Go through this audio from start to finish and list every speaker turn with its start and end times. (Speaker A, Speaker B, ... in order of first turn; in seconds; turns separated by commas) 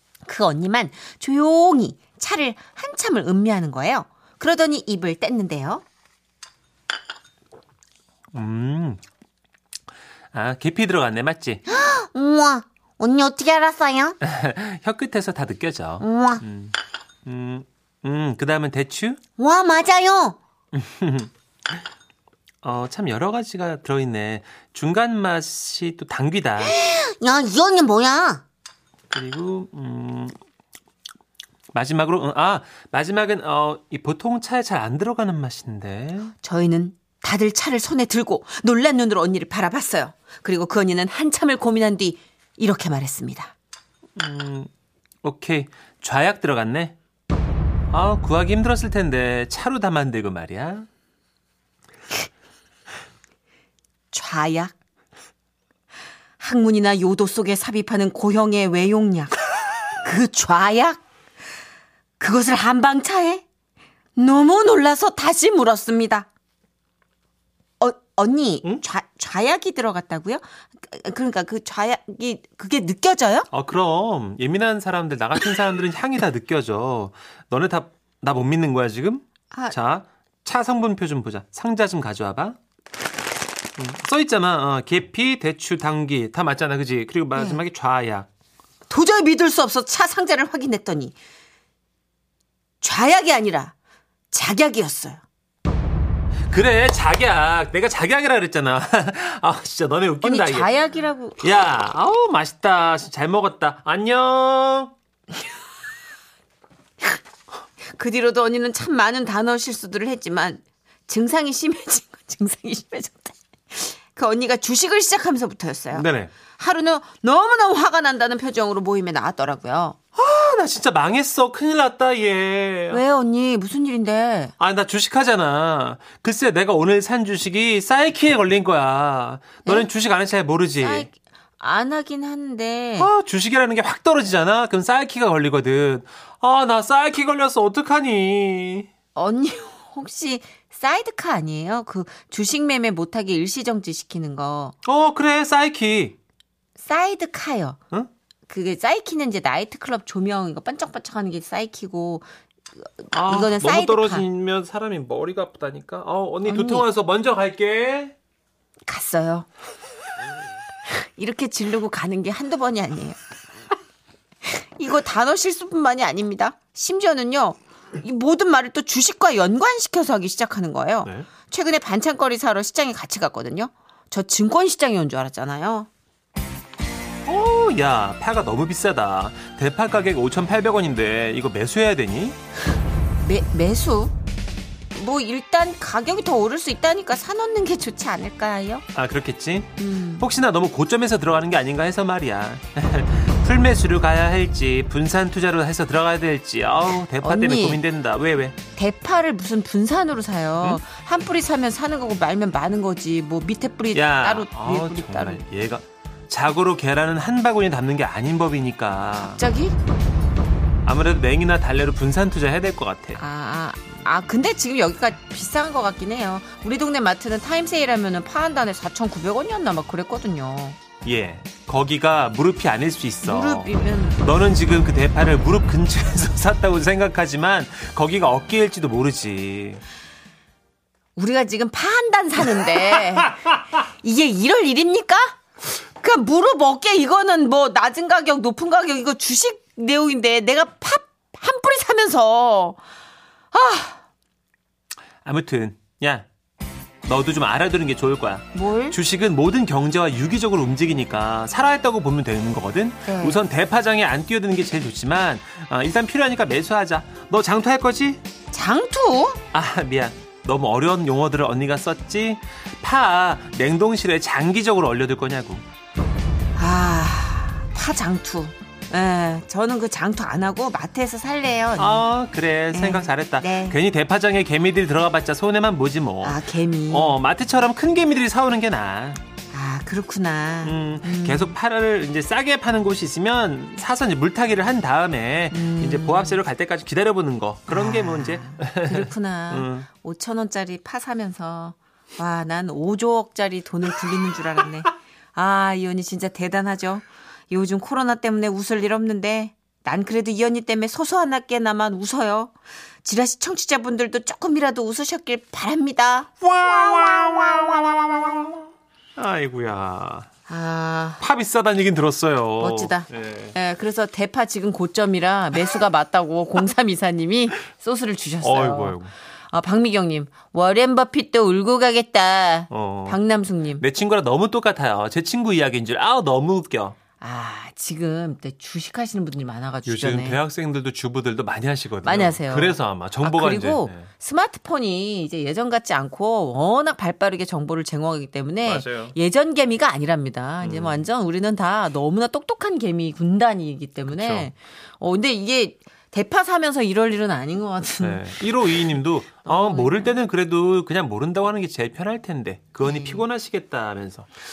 Speaker A: 0.2-5.8, Speaker B: 8.3-9.0, Speaker B: 10.3-11.6, Speaker A: 11.7-14.2, Speaker B: 14.2-19.2, Speaker A: 16.0-16.4, Speaker A: 19.4-20.4, Speaker B: 20.7-21.3, Speaker B: 22.6-26.8, Speaker A: 26.6-28.4, Speaker B: 29.1-30.4, Speaker B: 31.7-36.3, Speaker A: 36.4-43.5, Speaker B: 44.2-44.7, Speaker B: 45.2-47.0, Speaker B: 47.9-50.9, Speaker A: 54.1-54.8, Speaker A: 56.4-59.4, Speaker A: 60.0-61.0, Speaker A: 62.2-63.5, Speaker A: 64.2-66.3, Speaker A: 67.8-73.5, Speaker B: 73.5-82.6, Speaker B: 83.8-88.3, Speaker A: 87.4-87.6, Speaker A: 88.9-91.2, Speaker A: 92.8-93.7, Speaker A: 94.3-95.2, Speaker B: 96.5-100.7, Speaker A: 100.2-101.4, Speaker B: 101.4-104.9, Speaker A: 107.9-120.0, Speaker B: 115.9-116.3, Speaker B: 120.2-123.0, Speaker A: 122.9-124.5, Speaker B: 124.6-131.1, Speaker A: 130.8-133.1, Speaker B: 133.0-138.9, Speaker A: 139.2-144.8, Speaker B: 144.8-146.2, Speaker A: 146.8-147.8, Speaker A: 148.5-152.3, Speaker A: 152.8-154.3, Speaker B: 153.1-158.2, Speaker A: 156.4-156.9, Speaker A: 158.9-159.5, Speaker A: 160.9-163.2, Speaker A: 164.4-175.9, Speaker B: 177.3-182.4, Speaker A: 183.2-184.2, Speaker A: 184.9-188.9, Speaker B: 188.9-198.6, Speaker A: 189.8-190.3, Speaker A: 197.2-197.8, Speaker A: 198.8-205.4, Speaker B: 203.9-209.4, Speaker A: 209.2-209.8, Speaker B: 210.8-213.2, Speaker A: 213.2-220.8, Speaker B: 221.0-229.8, Speaker A: 223.2-224.2, Speaker A: 231.2-235.4, Speaker A: 236.0-242.8, Speaker A: 243.5-244.0, Speaker B: 245.2-246.3, Speaker B: 247.0-258.2, Speaker A: 248.5-249.0, Speaker A: 253.1-253.4, Speaker A: 258.5-259.4, Speaker B: 259.5-265.6, Speaker A: 266.6-272.1, Speaker B: 271.8-279.2, Speaker A: 272.7-273.8, Speaker A: 276.2-277.2, Speaker A: 279.5-281.6, Speaker B: 280.6-289.9, Speaker A: 285.5-286.4, Speaker A: 287.7-302.5, Speaker A: 303.0-307.8, Speaker B: 306.4-308.6, Speaker B: 309.2-310.3, Speaker A: 310.5-311.2, Speaker B: 311.2-313.6, Speaker A: 312.6-319.0, Speaker B: 318.4-319.1, Speaker A: 319.5-323.8, Speaker B: 322.7-323.2, Speaker B: 323.8-327.0, Speaker A: 327.2-330.4, Speaker B: 329.9-334.1, Speaker A: 332.0-348.9, Speaker B: 338.6-339.2, Speaker B: 340.6-341.1, Speaker B: 344.1-344.5, Speaker B: 348.0-354.3, Speaker A: 349.4-350.1, Speaker A: 352.8-353.3